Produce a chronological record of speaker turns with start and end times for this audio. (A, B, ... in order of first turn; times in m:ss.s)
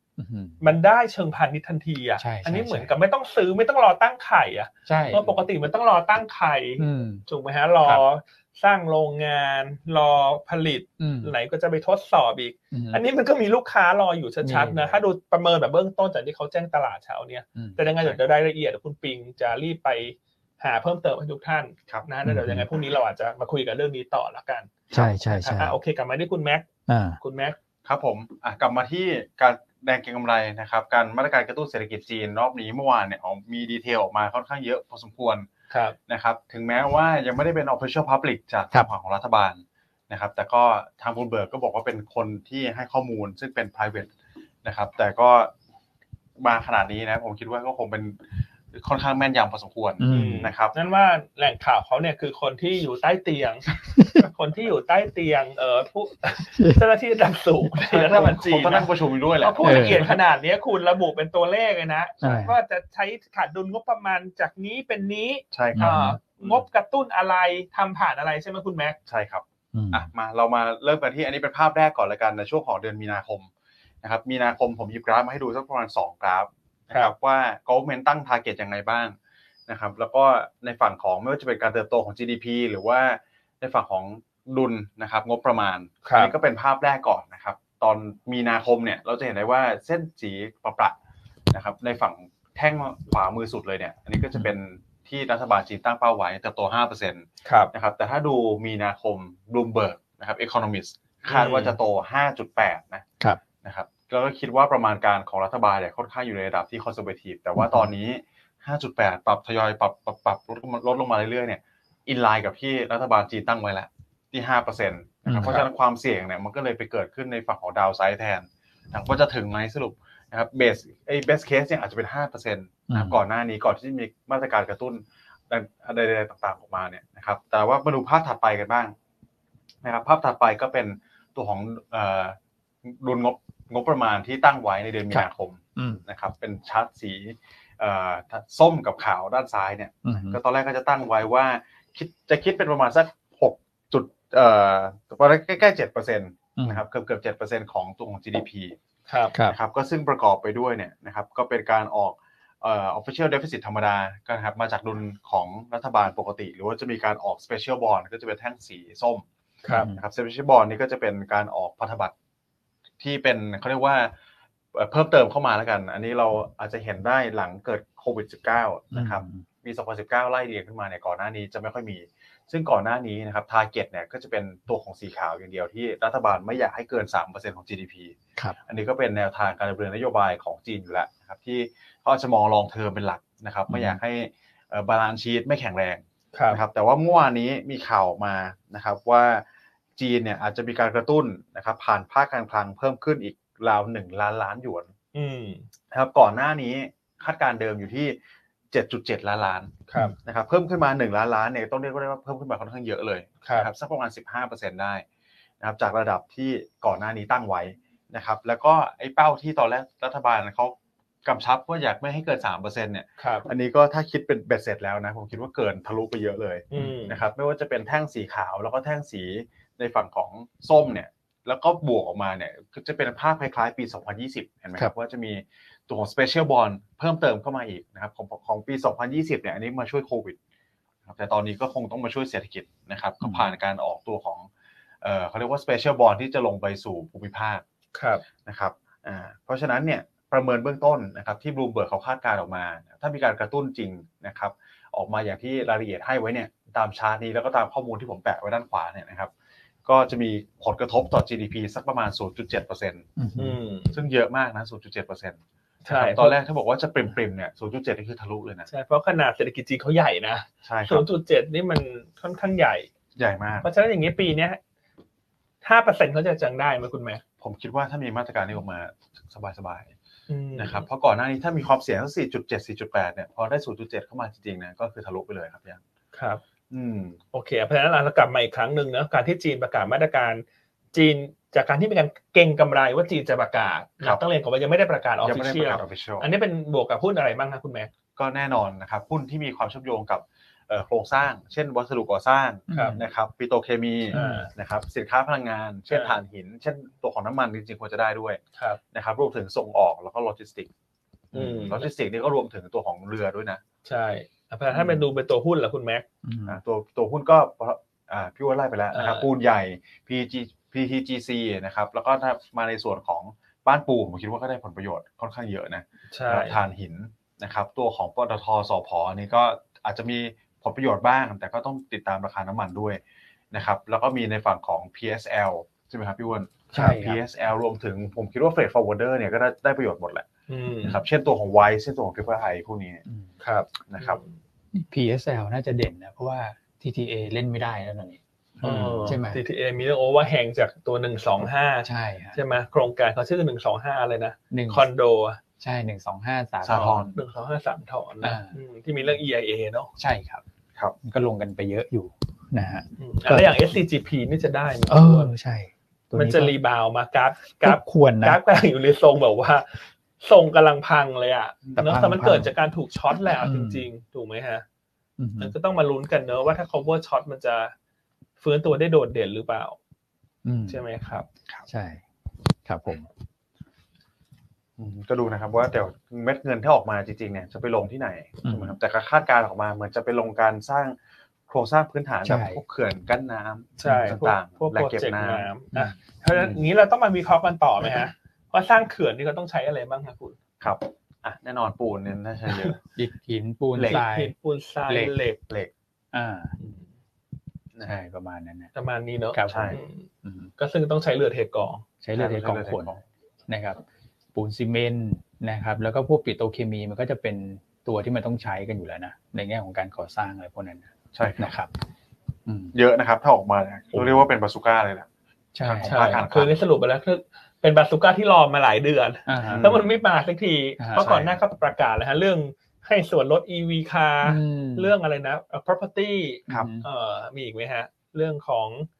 0:00.2-0:00.6 A
0:00.6-0:26.6 B
0:02.2-0:02.9 A
0:04.8-0:05.2 A
0:06.8-0:07.2 A
0:11.0-0:11.3 A
0:12.7-0:13.0 A
0:14.4-0:15.0 A
0:17.5-0:17.8 A
0:22.2-0:22.6 A
0:24.9-0:25.8 A
0:26.9-0:27.2 A
0:27.2-0:27.6 B
0:27.8-0:35.5 C
0:35.7-0:36.0 B
0:36.1-0:44.1 C
0:44.6-0:45.5 C
0:46.4-0:48.2 C
0:48.7-0:50.7 C
0:50.0-0:50.5 A
0:50.1-1:09.0 B
0:53.9-0:54.2 A
0:56.5-0:56.8 A
0:57.9-1:00.2 C
0:59.6-1:00.1 A
1:02.2-1:02.5 A
1:05.5-1:06.6 C
1:05.7-1:06.2 A
1:09.1-1:13.5 C
1:09.7-1:10.1 A
1:14.0-1:19.2 C
1:19.7-1:30.9 C
1:26.0-1:26.3 B
1:31.5-1:43.0 C
1:37.4-1:37.7 B
1:41.3-1:41.8 B
1:43.6-2:08.9 C
1:47.6-1:47.9 A
1:55.2-1:55.7 A
2:02.9-2:03.2 A
2:09.8-2:28.8 C
2:15.1-2:16.0 A
2:20.0-2:20.4 A
2:26.6-2:26.8 A
2:29.1-2:29.4 B
2:29.5-2:39.2 C
2:39.6-2:39.9 B
2:39.7-2:40.0 A
2:39.9-2:42.1 C
2:43.0-2:44.1 C
2:44.7-3:09.4 C
2:48.9-2:49.4 A
3:03.7-3:04.0 A
3:06.3-3:06.6 B
3:10.0-3:14.9 C
3:15.1-3:15.7 B
3:15.9-3:18.2 C
3:18.7-3:25.0 C
3:19.9-3:20.2 B
3:23.4-3:23.7 B
3:25.6-3:50.4 C
3:33.2-3:33.5 B
3:36.7-3:37.2 B
3:51.0-3:54.5 C
3:53.2-3:53.5 A
3:55.0-3:57.6 C
3:57.9-3:58.2 B
3:58.4-4:09.3 C
4:09.8-4:13.1 C
4:13.2-4:13.6 A
4:13.4-4:14.0 B
4:13.9-4:18.7 C
4:15.8-4:16.4 B
4:18.7-4:22.9 B
4:20.6-4:21.1 C
4:23.2-4:23.6 C
4:23.6-4:24.6 B
4:25.6-4:27.2 B
4:27.4-4:29.9 C
4:30.3-4:30.8 B
4:30.6-4:35.8 C
4:36.1-4:36.4 B
4:36.7-4:37.2 C
4:37.3-4:47.9 B
4:45.2-4:46.3 C
4:48.2-4:58.4 C
4:52.7-4:53.0 B
4:52.7-4:53.0 A
4:54.1-4:54.4 A
4:54.1-4:54.5 B
4:55.9-4:56.2 B
4:58.9-5:00.7 C
5:01.3-5:03.6 C
5:01.3-5:01.8 B
5:03.8-5:06.0 B
5:06.2-5:06.6 A
5:06.4-5:23.0 C
5:08.9-5:09.3 B
5:16.1-5:16.6 B
5:23.5-5:30.2 C
5:26.7-5:27.2 A
5:30.5-5:31.0 B
5:30.8-5:33.0 C
5:33.4-5:34.3 B
5:33.9-5:34.2 C
5:34.7-5:39.4 A
5:38.6-5:45.4 B
5:38.6-5:39.2 C
5:41.8-5:42.4 A
5:44.5-5:44.8 A
5:45.6-5:47.1 A
5:46.6-5:47.1 C
5:46.8-5:49.9 B
5:48.2-5:48.6 A
5:50.0-5:50.4 A
5:51.0-5:53.5 A
5:53.0-5:55.3 B
5:54.9-5:56.5 A
5:56.1-6:04.6 B
5:57.6-5:58.4 A
6:01.8-6:02.5 A
6:03.4-6:03.9 A
6:05.2-6:05.5 A
6:05.4-6:07.7 B
6:08.4-6:09.8 B
6:10.4-6:10.8 A
6:10.7-6:11.3 B
6:11.7-6:12.0 A
6:12.6-6:13.1 A
6:14.8-6:21.0 C
6:18.4-6:18.8 A
6:21.5-6:25.5 C
6:22.2-6:22.6 A
6:23.8-6:30.4 B
6:23.8-6:24.2 A
6:26.3-6:26.6 C
6:30.6-6:32.8 C
6:33.0-6:34.3 A
6:33.8-6:34.0 C
6:33.8-6:35.4 B
6:34.9-6:35.1 A
6:36.1-6:36.5 A
6:36.6-6:36.9 B
6:37.8-6:38.7 A
6:38.7-6:41.8 B
6:39.3-6:40.5 A
6:39.5-6:39.8 C
6:42.0-6:43.0 A
6:42.1-6:43.0 C
6:43.5-6:43.8 A
6:44.3-6:51.7 A
6:51.1-6:51.5 C
6:52.4-6:52.7 A
6:52.7-6:55.1 C
6:55.5-6:56.0 A
6:55.6-6:56.5 C
6:55.8-7:08.9 B
6:59.3-6:59.7 A
6:59.4-6:59.9 C
7:00.8-7:01.1 A
7:01.0-7:01.4 C
7:04.2-7:04.9 A
7:06.5-7:06.8 A